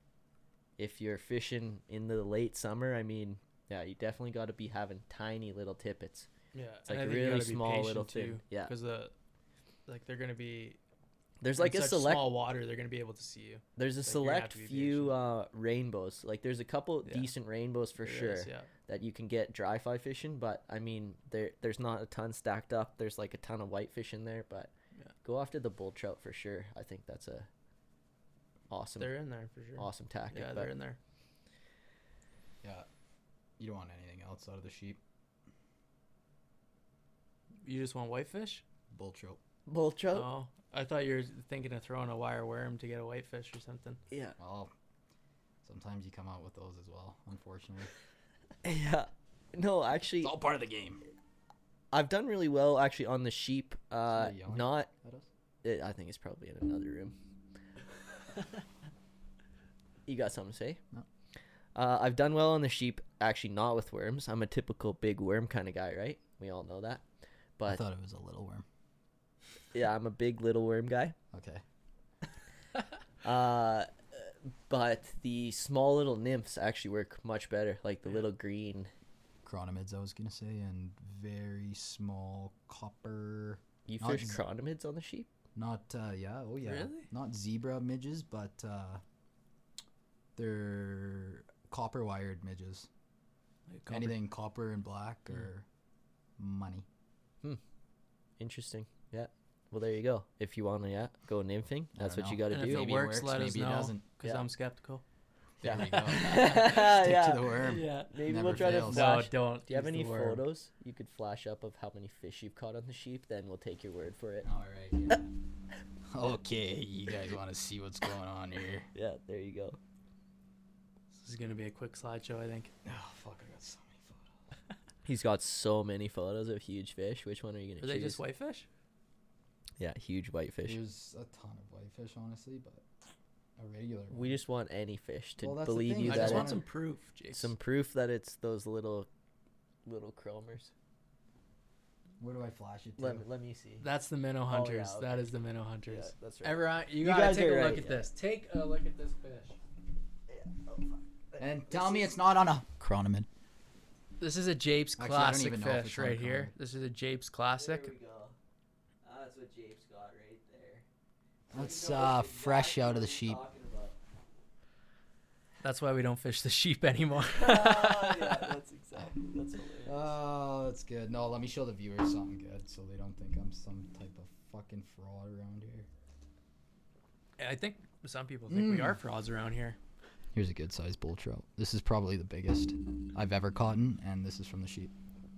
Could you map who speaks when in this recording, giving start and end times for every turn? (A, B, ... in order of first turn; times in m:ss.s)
0:00.8-0:06.3 A
0:06.5-0:09.1 B
0:06.9-0:08.7 A
0:09.9-0:10.8 B
0:11.4-0:12.3 A
0:11.6-0:15.2 B
0:13.8-0:24.7 A
0:17.0-0:17.3 B
0:18.0-0:18.7 B
0:25.2-0:27.5 A
0:28.7-0:29.2 A
0:29.0-0:31.0 B
0:29.8-0:30.7 A
0:33.6-0:35.0 C
0:37.6-0:38.6 B
0:38.9-0:39.4 C
0:39.7-0:40.3 A
0:40.1-0:44.0 B
0:44.1-0:44.4 A
0:44.4-0:44.7 C
0:45.6-0:47.9 C
0:48.6-0:50.4 A
0:50.2-0:51.0 C
0:51.9-0:54.9 A
0:54.1-0:55.3 C
0:55.6-0:57.2 A
1:00.1-1:00.8 A
1:01.8-1:07.0 A
1:07.7-1:08.6 C
1:09.7-1:11.2 A
1:11.3-1:11.6 C
1:13.2-1:18.9 A
1:19.4-1:24.4 C
1:23.9-1:25.3 A
1:25.6-1:29.0 C
1:26.6-1:27.1 B
1:30.4-1:32.9 C
1:33.7-1:34.2 B
1:33.9-1:35.7 C
1:36.4-1:36.9 C
1:38.4-1:43.0 A
1:42.0-1:44.0 C
1:42.5-1:45.0 B
1:45.6-1:49.1 C
1:45.6-1:54.5 A
1:45.8-1:46.3 B
1:47.6-1:50.4 B
1:54.4-1:55.3 C
1:56.1-1:58.9 C
1:58.9-1:59.8 A
2:01.2-2:02.7 B
2:02.8-2:04.3 C
2:05.0-2:08.2 A
2:07.8-2:08.7 B
2:09.8-2:10.8 A
2:10.7-2:12.8 C
2:13.6-2:14.4 C
2:14.1-2:16.6 A
2:15.4-2:16.7 C
2:16.0-2:17.5 B
2:17.3-2:19.1 A
2:19.9-2:20.7 A
2:22.2-2:23.3 C
2:23.0-2:23.9 A
2:23.8-2:29.6 B
2:24.5-2:25.2 A
2:25.9-2:28.1 A
2:30.3-2:32.1 A
2:31.4-2:33.3 C
2:34.2-2:37.9 B
2:35.0-2:36.5 C
2:37.6-2:38.4 A
2:39.0-2:40.9 A
2:41.5-2:43.4 C
2:41.5-2:44.0 A
2:45.6-2:48.6 B
2:47.3-2:50.1 A
2:49.9-2:55.9 C
2:57.4-2:59.8 B
2:58.5-2:59.0 C
3:00.3-3:04.9 C